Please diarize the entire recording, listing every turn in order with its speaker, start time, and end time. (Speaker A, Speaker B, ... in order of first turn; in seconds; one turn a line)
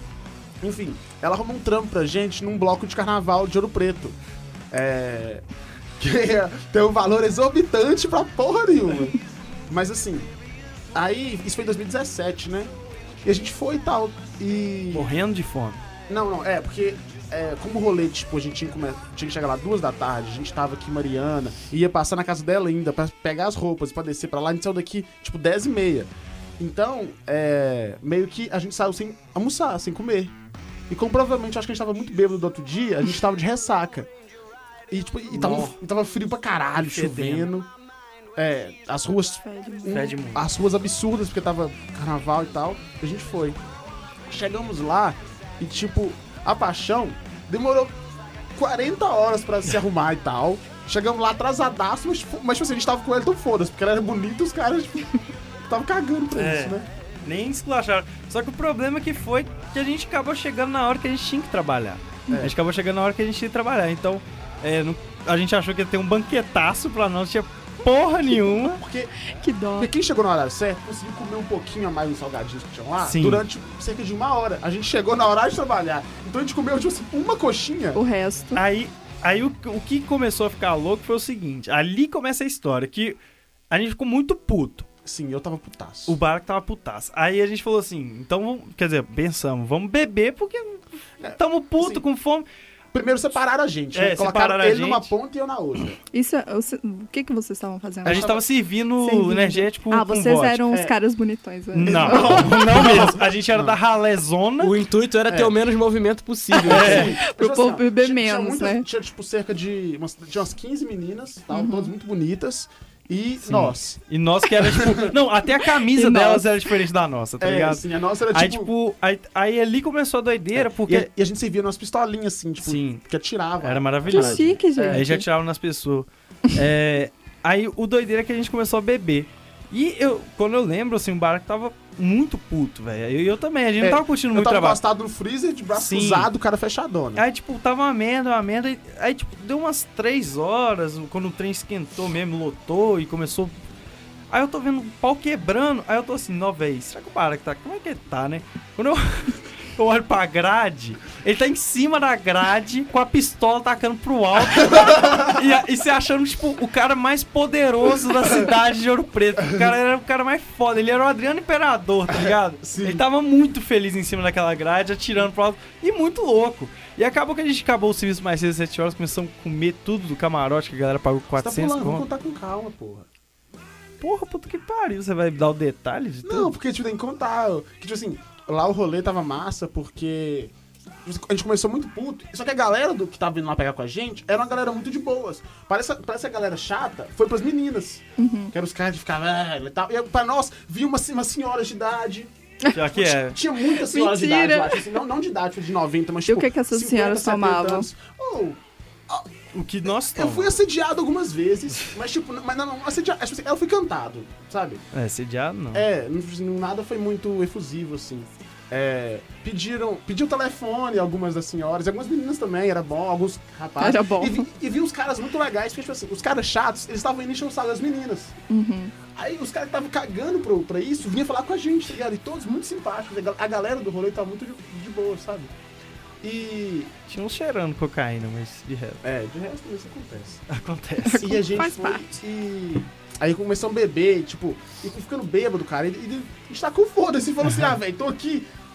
Speaker A: 0.6-4.2
Speaker A: 4.7-5.4
Speaker A: 6.0-10.3
Speaker A: 10.9-12.7
Speaker A: 13.2-15.1
Speaker B: 14.9-15.8
Speaker A: 16.1-30.3
Speaker A: 30.9-34.1
Speaker A: 34.9-37.7
Speaker B: 35.3-35.8
Speaker B: 36.8-37.5
Speaker A: 38.4-43.6
Speaker C: 39.4-40.1
Speaker B: 39.9-40.5
Speaker A: 44.3-47.9
Speaker A: 48.5-55.1
Speaker A: 55.6-56.9
Speaker B: 56.3-68.8
Speaker A: 62.3-62.5
Speaker A: 68.2-69.1
Speaker C: 69.3-69.9
Speaker A: 69.7-78.0
Speaker B: 73.0-73.4
Speaker C: 77.9-78.6
Speaker B: 78.5-83.2
Speaker B: 83.7-84.9
Speaker A: 85.0-86.2
Speaker B: 86.1-90.8
Speaker A: 91.2-92.0
Speaker B: 91.3-92.5
Speaker A: 92.9-96.0
Speaker B: 93.9-95.1
Speaker C: 96.1-98.3
Speaker B: 98.0-100.6
Speaker A: 98.0-98.4
Speaker C: 99.0-102.7
Speaker A: 100.7-100.9
Speaker B: 101.7-104.7
Speaker A: 101.8-103.8
Speaker D: 104.6-107.1
Speaker A: 105.3-105.5
Speaker B: 106.7-107.1
Speaker A: 106.7-114.0
Speaker C: 106.8-108.8
Speaker C: 111.5-111.9
Speaker B: 113.4-121.1
Speaker A: 114.5-115.2
Speaker C: 115.8-116.5
Speaker A: 117.4-118.7
Speaker A: 120.5-125.1
Speaker B: 122.6-123.0
Speaker B: 123.6-134.8
Speaker C: 124.1-125.2
Speaker A: 133.8-137.2
Speaker B: 135.7-136.3
Speaker B: 137.2-143.6
Speaker B: 144.3-172.1
Speaker A: 154.7-155.3
Speaker A: 162.2-163.0
Speaker A: 171.4-173.1
Speaker B: 174.0-176.5
Speaker A: 176.2-180.5
Speaker A: 181.0-199.3
Speaker C: 188.2-188.5
Speaker B: 192.7-193.4
Speaker C: 193.7-194.9
Speaker C: 196.3-197.9
Speaker B: 199.5-200.6
Speaker A: 200.0-204.8
Speaker B: 204.9-205.8
Speaker A: 205.7-218.3
Speaker C: 213.8-214.4
Speaker C: 218.5-218.9
Speaker A: 219.1-225.5
Speaker A: 226.2-226.9
Speaker B: 227.1-229.0
Speaker A: 229.0-230.4
Speaker B: 230.5-231.3
Speaker C: 231.1-232.0
Speaker A: 231.1-238.4